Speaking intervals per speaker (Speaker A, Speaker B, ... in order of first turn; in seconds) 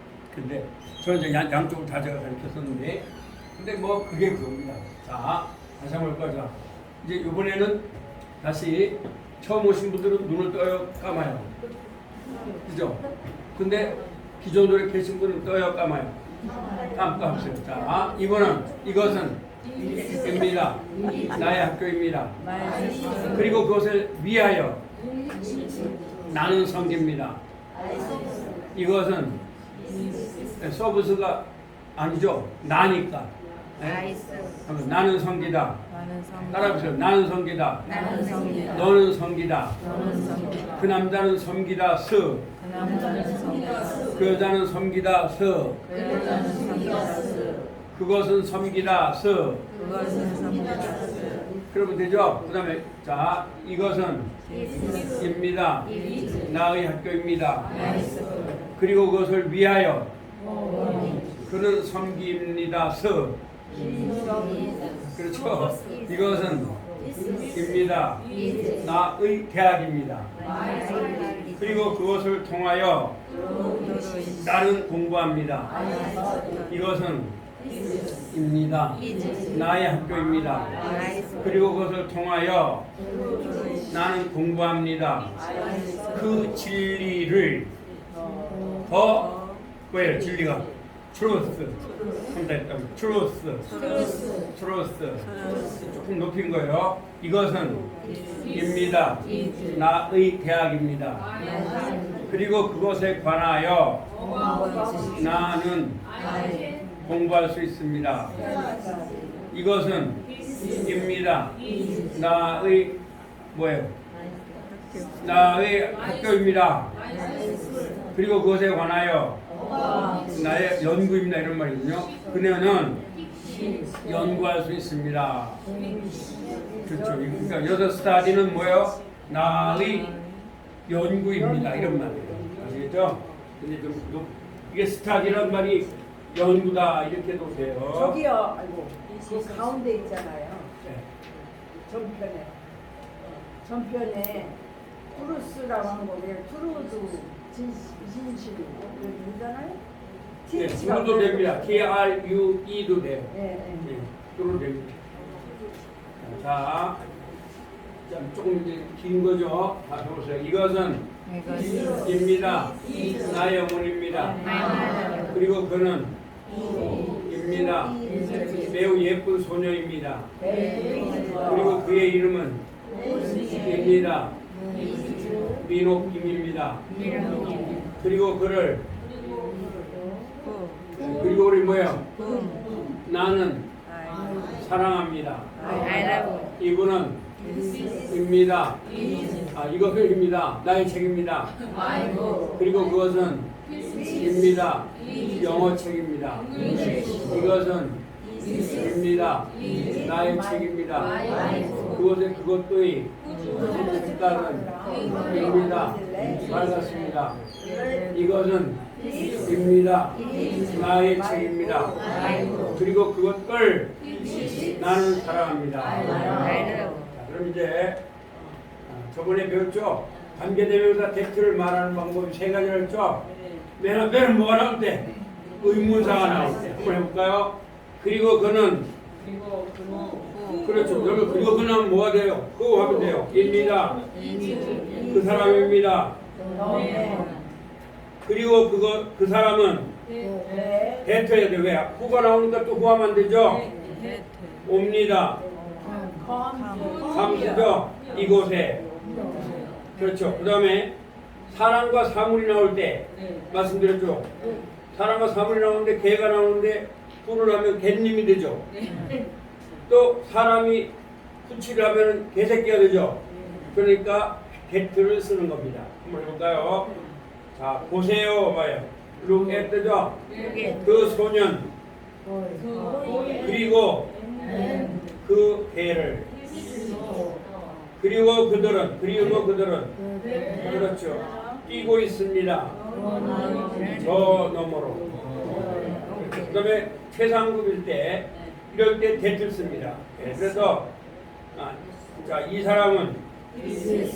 Speaker A: 0.3-3.0, 3.6-7.8, 8.4-11.5, 12.7-13.0, 13.6-16.2, 16.9-19.4, 20.1-22.4, 23.3-24.8, 26.3-27.4, 28.7-29.4, 30.6-31.4, 31.9-34.0, 34.6-35.8, 36.5-37.9, 38.7-39.8, 40.8-42.5, 44.1-45.8, 47.9-49.7, 51.7-54.3, 55.2-57.9, 58.8-60.1, 61.4-63.4, 65.1-66.8, 67.5-68.2, 68.8-70.3, 71.5-73.2, 74.4-75.9, 76.7-77.3, 78.3-79.0, 79.5-82.9, 83.9-85.3, 86.1-87.7, 88.9-93.7, 94.5-97.9, 98.5-101.3, 102.3-104.0, 105.1-106.0, 107.0-108.4, 109.5-110.2, 110.8-111.5, 112.1-113.0, 113.5-113.9, 115.2-116.9, 118.1-119.4, 120.3-123.0, 124.0-125.6, 126.8-130.2, 130.9-138.2, 150.5-155.0, 156.2-157.0, 158.1-164.5, 165.3-166.1, 167.2-168.0, 168.6-170.3, 171.4-172.6, 173.5-174.3, 175.6-176.8, 178.0-178.8, 181.0-182.1, 183.1-183.7, 184.6-185.7, 186.6-187.2, 188.1-188.8, 189.5-191.5, 192.6-193.5, 194.1-198.0, 198.5-207.4, 208.1-208.9, 209.4-212.0, 212.7-214.0, 214.7-218.0, 218.8-223.2, 223.8-225.1, 225.6-228.9, 230.6-234.0, 235.1-236.2, 238.2-239.9, 241.0-243.7, 244.6-245.4, 247.0-248.8, 249.9-250.9, 251.5-254.3, 254.9-258.7, 259.9-260.9, 261.4-266.9, 267.5-270.2, 270.8-271.7, 273.4-274.1, 275.2-276.3, 278.0-279.9, 280.5-282.8, 283.9-285.0, 286.1-290.9, 291.6-293.2
Speaker B: 22.6-23.3, 35.9-36.8, 40.3-40.6, 42.6-43.7, 46.0-47.6, 49.8-51.5, 73.8-74.4, 89.3-89.6, 93.7-94.2, 95.3-95.7, 182.2-182.6, 230.3-230.7, 246.6-246.9
Speaker C: 34.1-34.4, 37.9-38.7, 70.8-71.4, 164.5-165.1
Speaker D: 88.1-88.8, 104.6-104.8, 108.4-109.2, 125.8-127.3, 131.3-132.5, 137.9-140.7, 141.9-142.5, 143.6-144.6, 145.1-149.8, 150.4-151.8, 153.3-153.8, 170.4-171.4, 203.6-206.5, 211.1-212.2, 234.7-235.1, 236.4-237.3, 240.2-241.0, 245.6-247.0, 248.7-249.6